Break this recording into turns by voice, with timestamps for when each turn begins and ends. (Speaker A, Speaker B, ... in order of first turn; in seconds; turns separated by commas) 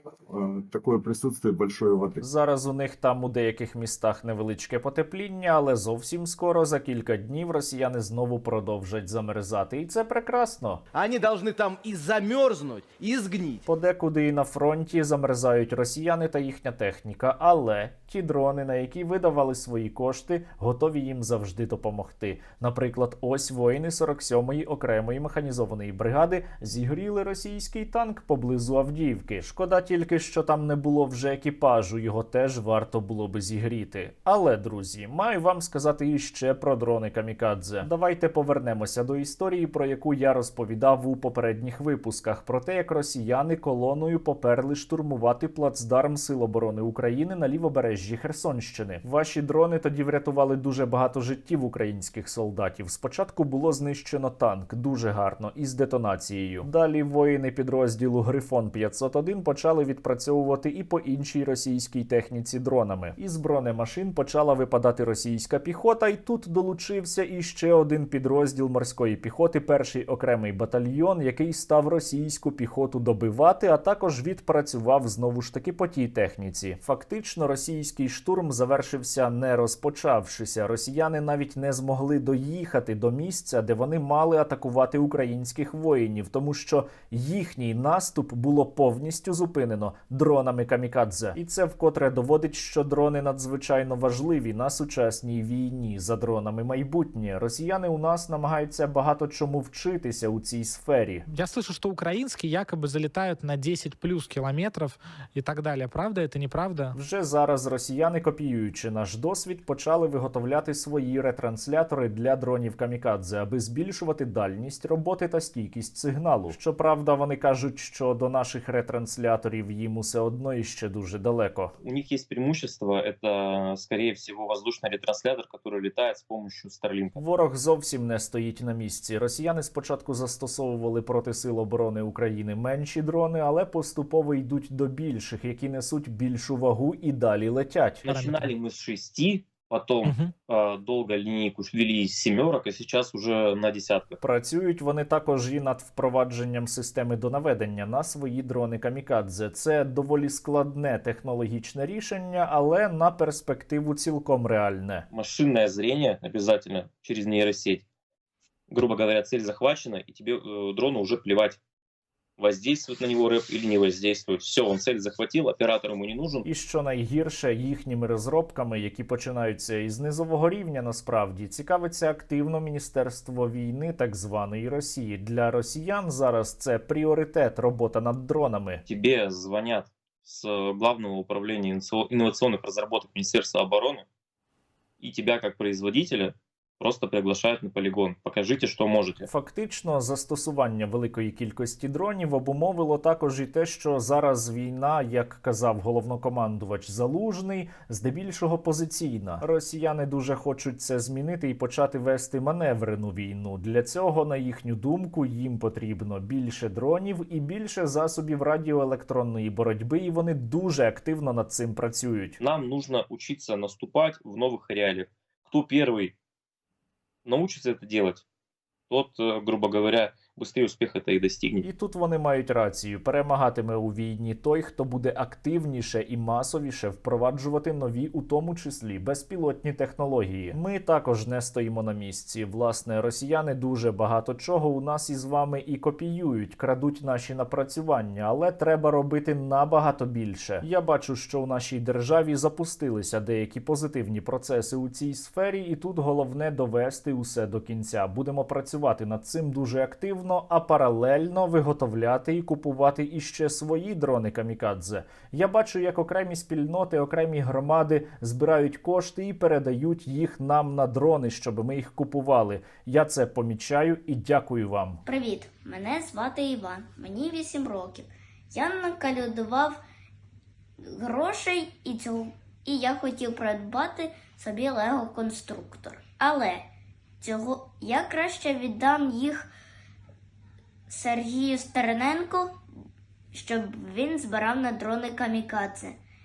Speaker A: 0.3-2.2, Speaker B: 2.2-10.8, Speaker C: 10.9-13.6, Speaker B: 13.7-101.2, Speaker D: 101.3-107.0, Speaker B: 106.9-121.7, Speaker E: 121.8-127.2, Speaker B: 127.2-138.0, Speaker E: 138.0-144.2, Speaker D: 138.1-138.5, Speaker D: 140.0-140.3, Speaker B: 144.2-155.1, Speaker E: 155.1-157.8, Speaker E: 158.7-161.6, Speaker E: 162.4-166.4, Speaker B: 166.4-178.8, Speaker E: 178.9-184.0, Speaker E: 185.0-189.2, Speaker B: 189.3-212.4, Speaker E: 212.4-216.1, Speaker E: 217.2-218.2, Speaker E: 218.9-221.6, Speaker B: 221.6-265.0, Speaker F: 265.1-269.8, Speaker F: 270.8-276.6, Speaker F: 277.2-279.4, Speaker F: 280.9-282.5, Speaker F: 283.3-285.9